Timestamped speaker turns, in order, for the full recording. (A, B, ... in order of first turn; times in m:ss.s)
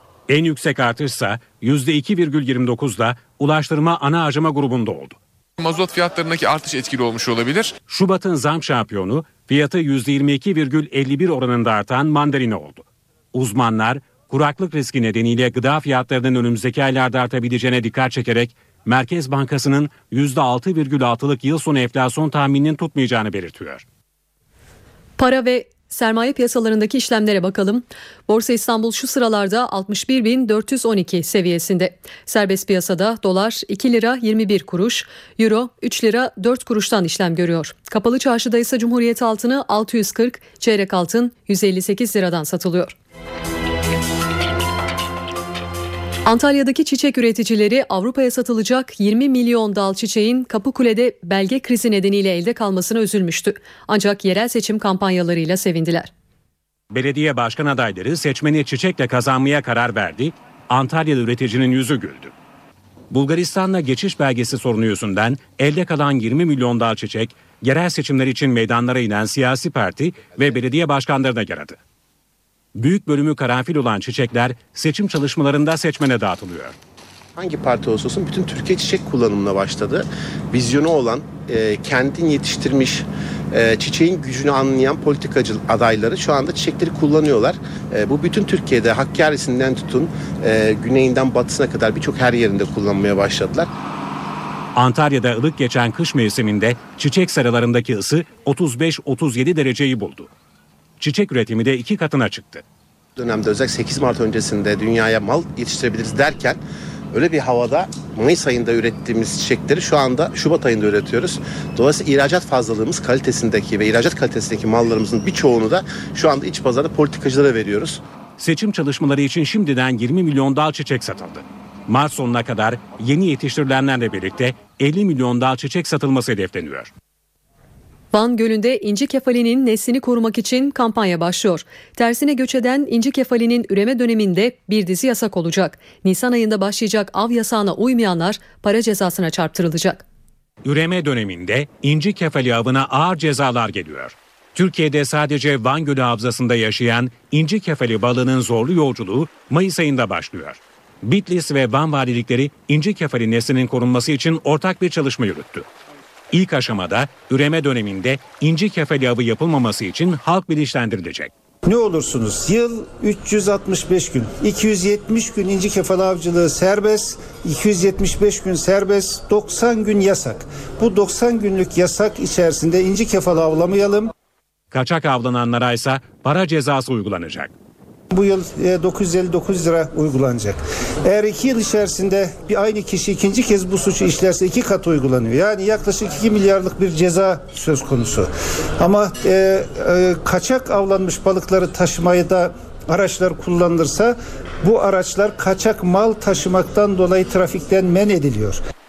0:00.3-0:05.2 A
0:05.6-0:07.7 B
0:07.9-0:23.8 A
0:25.2-0:42.9 C
0:46.2-0:56.1 C
0:56.9-1:02.3 A
1:03.1-1:11.8 A
1:12.8-1:16.8 A
1:17.4-1:33.7 D
1:34.8-1:40.3 A
1:41.0-1:42.6 A
1:43.2-1:46.6 D
1:47.1-1:58.0 D
1:58.4-2:06.9 A
2:08.1-2:20.0 C
2:20.6-2:35.7 A
2:36.3-2:41.3 A
2:41.6-2:54.1 E
2:54.7-2:57.5 A
2:58.1-3:18.6 E